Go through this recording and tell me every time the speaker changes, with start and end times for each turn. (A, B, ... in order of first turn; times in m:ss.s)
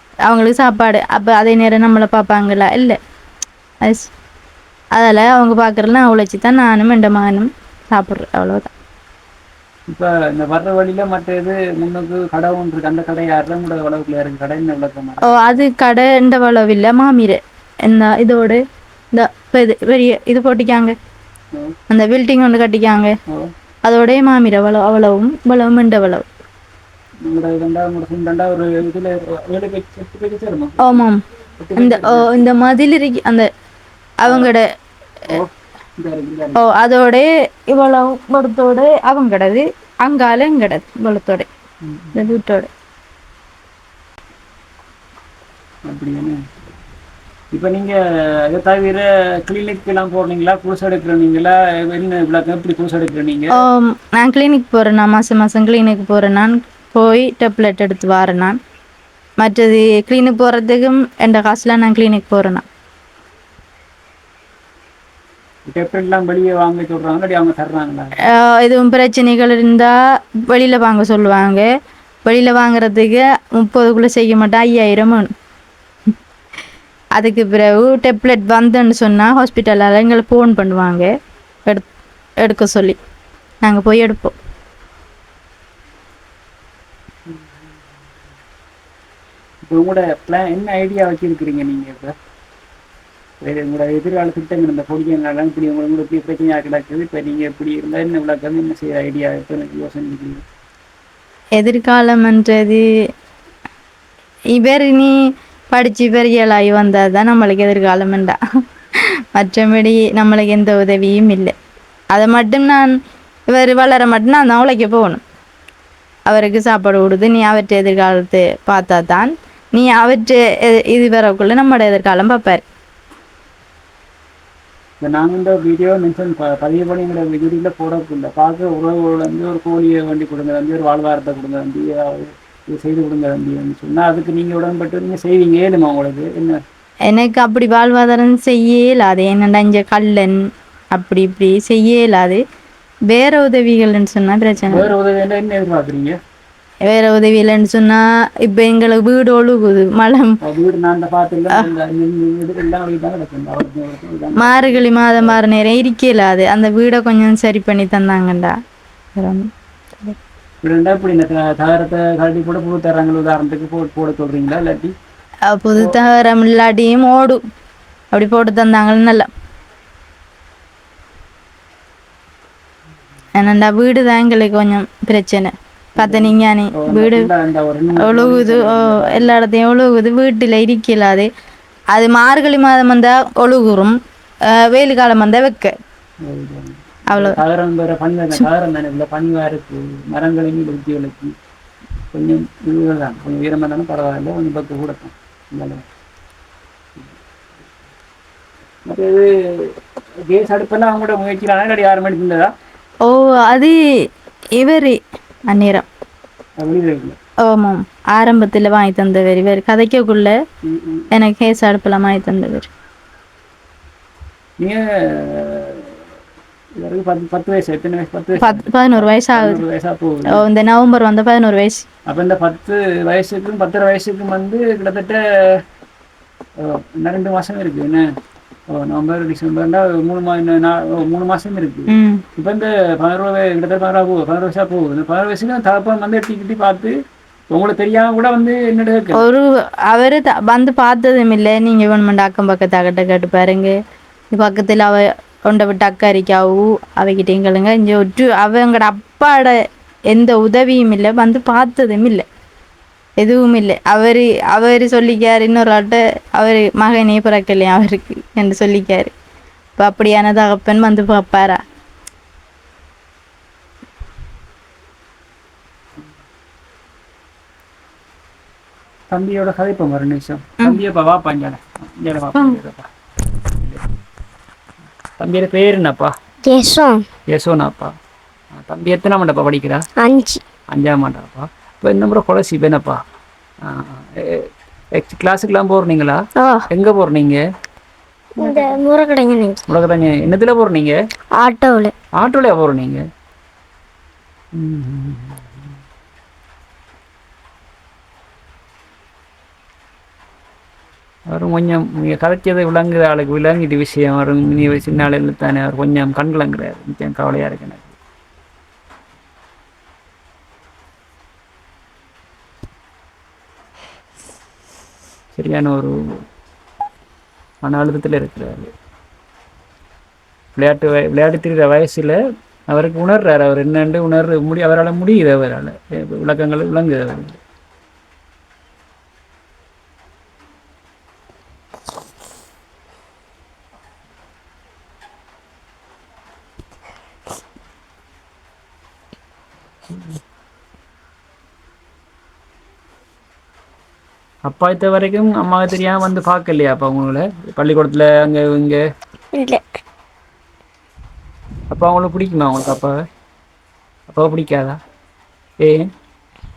0:00.3-0:03.0 A
0:03.8-0:04.1 A
0:05.0-0:08.7 A
0:09.9-0:15.6 B
0:15.2-0:18.6 A
0:19.1-0:20.9 A
0:21.9-0:23.1 A
0:23.8-0:26.2 A
0:27.2-0:31.0 B
0:30.8-0:31.2 A
0:31.6-0:32.4 B
0:31.8-0:33.5 A
0:34.2-0:34.6 A
0:34.2-0:34.5 B
0:35.3-0:36.6 B
0:36.6-0:41.5 A
0:41.8-0:42.2 B
0:42.1-0:42.7 A
0:45.9-0:46.4 B
0:47.5-0:47.9 B
0:48.5-0:53.6 B
0:53.6-0:58.6 A
0:59.4-1:02.6 A
1:05.6-1:08.2 B
1:08.3-1:09.9 A
1:10.5-1:11.7 A
1:12.2-1:15.3 A
1:17.2-1:21.1 A
1:22.4-1:23.0 A
1:23.6-1:24.3 A
1:29.7-1:32.1 B
1:33.4-1:40.4 B
1:41.6-1:42.8 A
1:44.6-1:45.1 A
1:45.7-1:48.4 A
1:49.4-1:51.5 A
1:52.1-1:52.9 A
1:53.5-1:55.2 A
1:56.3-2:02.6 A
2:05.0-2:16.6 B
2:17.1-2:20.4 A
2:20.9-2:22.4 A
2:23.1-2:24.9 A
2:24.7-2:26.2 B
2:26.9-2:30.4 A
2:30.4-2:35.4 B
2:34.4-2:38.5 A
2:39.2-2:39.4 A
2:40.6-2:44.9 B
2:45.5-2:47.4 A
2:48.1-2:49.3 A
2:53.3-2:57.3 A
2:56.0-2:59.3 B
2:58.0-3:01.3 A
3:01.9-3:03.9 A
3:04.5-3:05.7 A
3:06.2-3:11.3 B
3:07.1-3:07.4 A
3:12.1-3:15.8 B
3:18.8-3:19.7 B
3:20.3-3:22.5 B
3:23.0-3:23.8 A
3:24.6-3:25.0 A
3:25.5-3:25.9 A
3:26.6-3:27.2 B
3:27.4-3:30.4 A
3:30.6-3:31.1 B
3:31.1-3:32.7 A
3:34.6-3:35.9 B
3:36.8-3:40.4 B
3:38.4-3:39.6 A
3:40.3-3:41.8 A
3:42.1-3:45.6 B
3:46.6-3:48.0 B
3:48.7-3:56.9 B
3:51.9-3:52.2 A
3:57.5-3:59.2 B
3:59.1-4:03.7 A
4:04.3-4:09.5 A
4:10.1-4:12.2 A
4:13.2-4:19.1 A
4:19.8-4:21.6 A
4:29.1-4:33.9 B
4:35.2-4:36.1 B
4:36.4-4:37.0 C
4:37.3-4:37.9 B
4:38.5-4:39.8 B
4:40.0-4:40.4 C
4:40.7-4:43.0 B
4:43.6-4:47.4 B
4:46.4-4:46.6 C
4:48.4-4:49.6 C
4:48.4-4:48.8 A
4:49.7-4:51.0 B
4:51.4-4:51.9 C
4:52.2-4:53.0 B
4:54.5-4:55.4 B
5:01.3-5:08.0 B
5:15.3-5:15.9 B
5:17.6-5:18.7 B
5:20.6-5:22.2 B
5:22.7-5:27.4 B
5:44.4-5:48.8 B
5:49.3-5:49.6 C
5:51.7-5:53.0 B
5:54.1-5:54.8 B
5:55.6-5:55.9 B